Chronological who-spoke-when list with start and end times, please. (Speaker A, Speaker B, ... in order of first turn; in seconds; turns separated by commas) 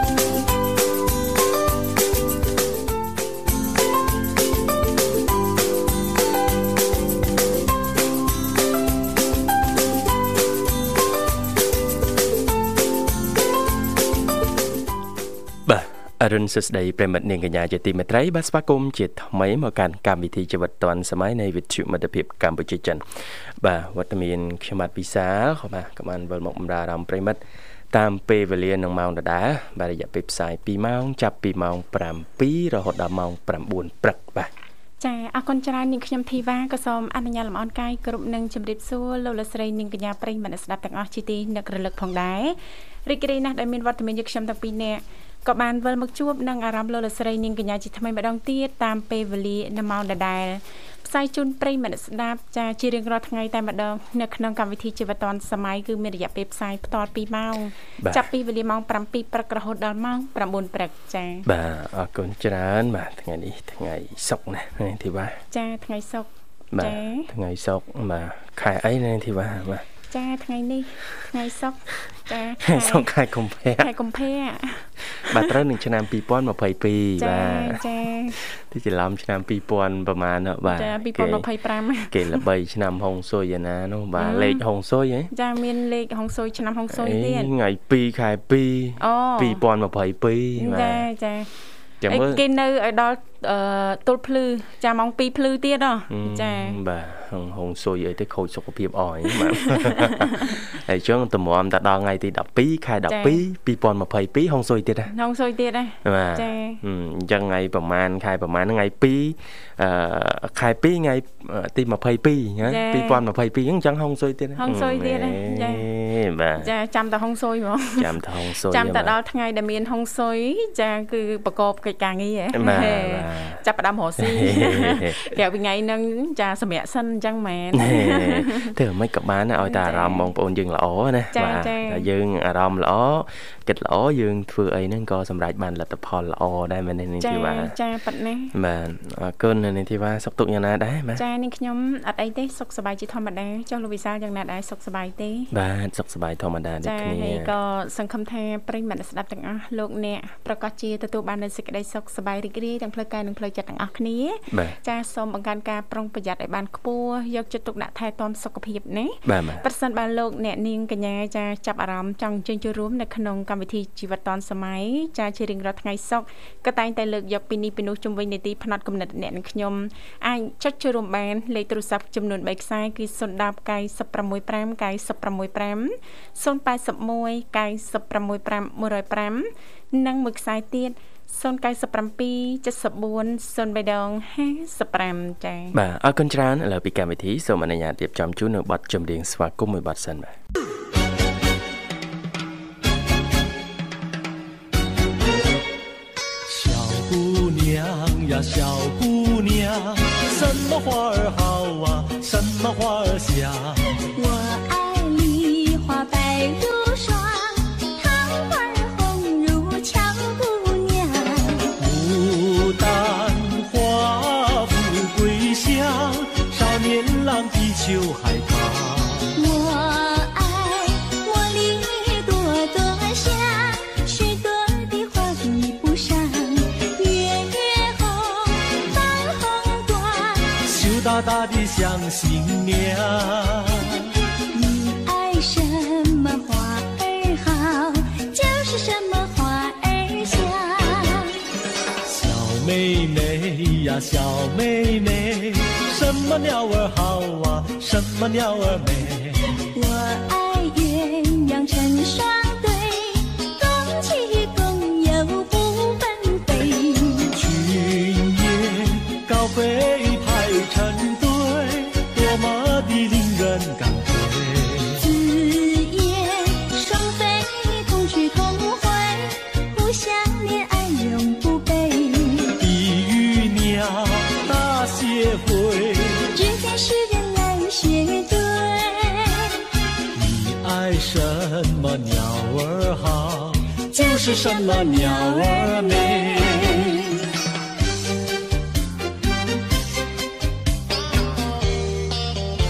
Speaker A: 15.7-23.0, Speaker A: 23.6-27.4, Speaker A: 27.9-34.5, Speaker B: 35.0-61.5, Speaker A: 58.0-58.3, Speaker A: 61.5-65.4, Speaker B: 65.5-67.3, Speaker A: 66.7-69.9, Speaker B: 70.1-73.1, Speaker A: 72.6-73.9, Speaker B: 73.8-75.6, Speaker A: 75.1-81.5, Speaker B: 77.2-78.4, Speaker B: 80.7-82.4, Speaker A: 82.1-85.3, Speaker B: 84.2-84.6, Speaker B: 85.3-87.5, Speaker A: 86.9-91.1, Speaker B: 89.0-89.6, Speaker B: 90.6-91.5, Speaker A: 92.0-92.4, Speaker B: 92.1-96.8, Speaker A: 96.1-105.1, Speaker B: 99.3-100.6, Speaker B: 103.0-103.4, Speaker B: 105.1-106.8, Speaker A: 106.0-116.7, Speaker B: 112.7-113.2, Speaker B: 114.6-115.9, Speaker B: 116.6-128.7, Speaker A: 118.0-119.2, Speaker A: 122.5-123.6, Speaker A: 124.2-125.2, Speaker A: 127.7-137.8, Speaker B: 129.6-130.3, Speaker B: 131.3-132.1, Speaker B: 137.2-138.5, Speaker A: 138.5-141.2, Speaker B: 141.2-145.5, Speaker A: 145.5-147.5, Speaker B: 146.8-185.8, Speaker A: 154.5-154.8, Speaker A: 159.3-159.7, Speaker A: 185.7-190.3, Speaker C: 196.5-204.0, Speaker D: 204.2-211.7, Speaker C: 211.8-219.3, Speaker D: 219.3-230.6, Speaker C: 230.7-234.1, Speaker D: 234.5-241.4, Speaker C: 242.1-249.6, Speaker D: 249.7-257.4, Speaker C: 257.3-265.1, Speaker D: 265.0-272.6, Speaker C: 272.6-276.3, Speaker D: 276.3-279.6, Speaker C: 280.1-287.1, Speaker D: 283.9-287.2